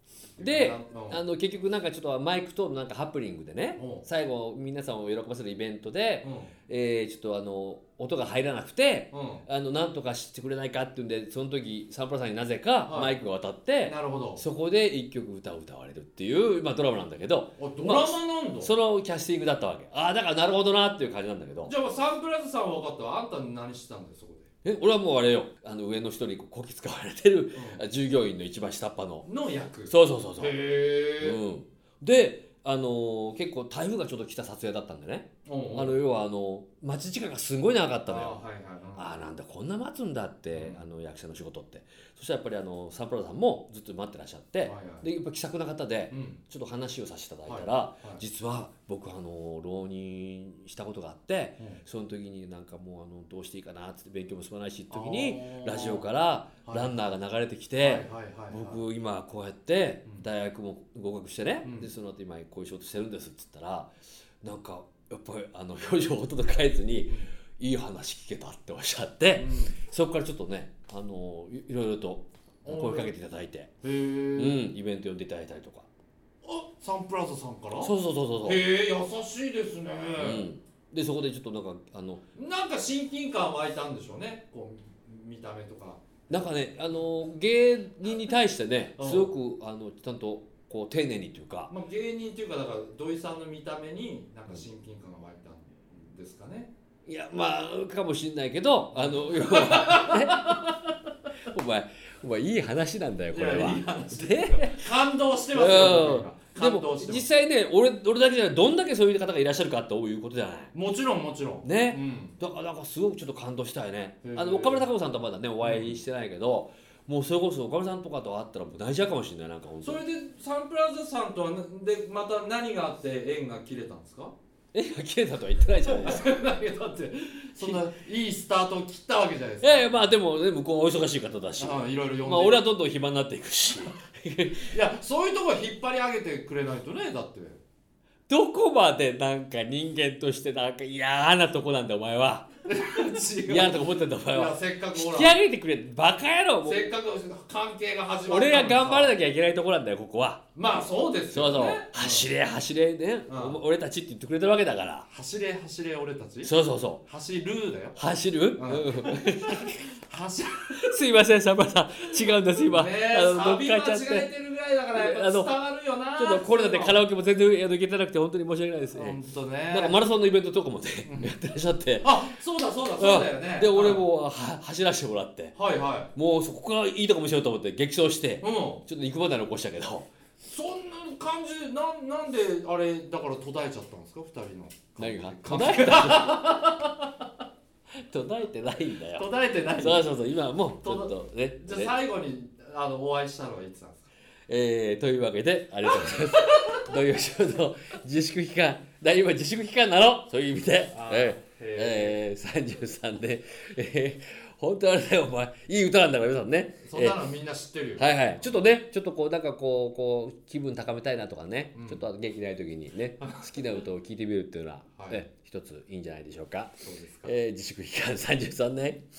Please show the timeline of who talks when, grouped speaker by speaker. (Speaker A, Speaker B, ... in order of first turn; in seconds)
Speaker A: 0.4-1.2, 3.8-4.0, 6.2-6.5, 9.1-9.4, 12.8-13.1, 13.8-14.4, 17.6-18.7, 21.6-24.5, 27.5-27.8, 29.2-31.4, 35.4-36.0, 38.0-39.1, 40.5-40.8, 44.6-45.1, 46.1-46.4, 47.4-48.2, 54.9-56.1, 56.6-57.0, 57.8-58.8, 61.6-61.9, 69.3-69.8, 72.6-73.1, 73.8-74.7, 76.4-80.5, 82.3-86.9, 89.0-89.3, 91.7-96.7, 98.9-100.7, 103.3-107.3, 110.7-112.4, 114.2-114.9, 115.6-116.0, 119.8-124.3, 125.8-130.1, 131.6-132.6, 134.7-137.6, 142.7-145.3, 146.6-149.2, 150.5-152.3, 153.3-153.6, 155.1-158.0, 158.5-160.8, 162.7-167.0, 168.9-170.0, 171.0-171.3, 172.0-174.0, 175.5-176.1, 178.4-178.8, 180.4-187.1, 189.2-190.2, 190.7-194.0, 196.0-196.9, 200.9-202.2, 206.8-208.7, 211.7-212.0, 213.2-213.7, 215.0-215.2, 216.8-217.3
Speaker B: 0.4-21.7, 24.6-29.3, 29.9-30.6, 31.2-38.4, 39.0-73.7, 74.4-75.9, 77.8-78.6, 80.2-82.2, 86.3-91.7, 97.0-100.7, 101.4-104.8, 105.5-110.7, 111.6-120.0, 124.7-126.3, 129.6-134.7, 138.3-142.5, 143.5-146.9, 148.3-150.4, 151.3-155.1, 156.4-157.0, 158.0-160.0, 160.7-164.3, 164.9-165.5, 166.2-169.2, 169.7-172.3, 173.0-175.5, 176.1-180.1, 185.0-186.5, 188.0-191.9, 194.5-207.2, 208.0-219.0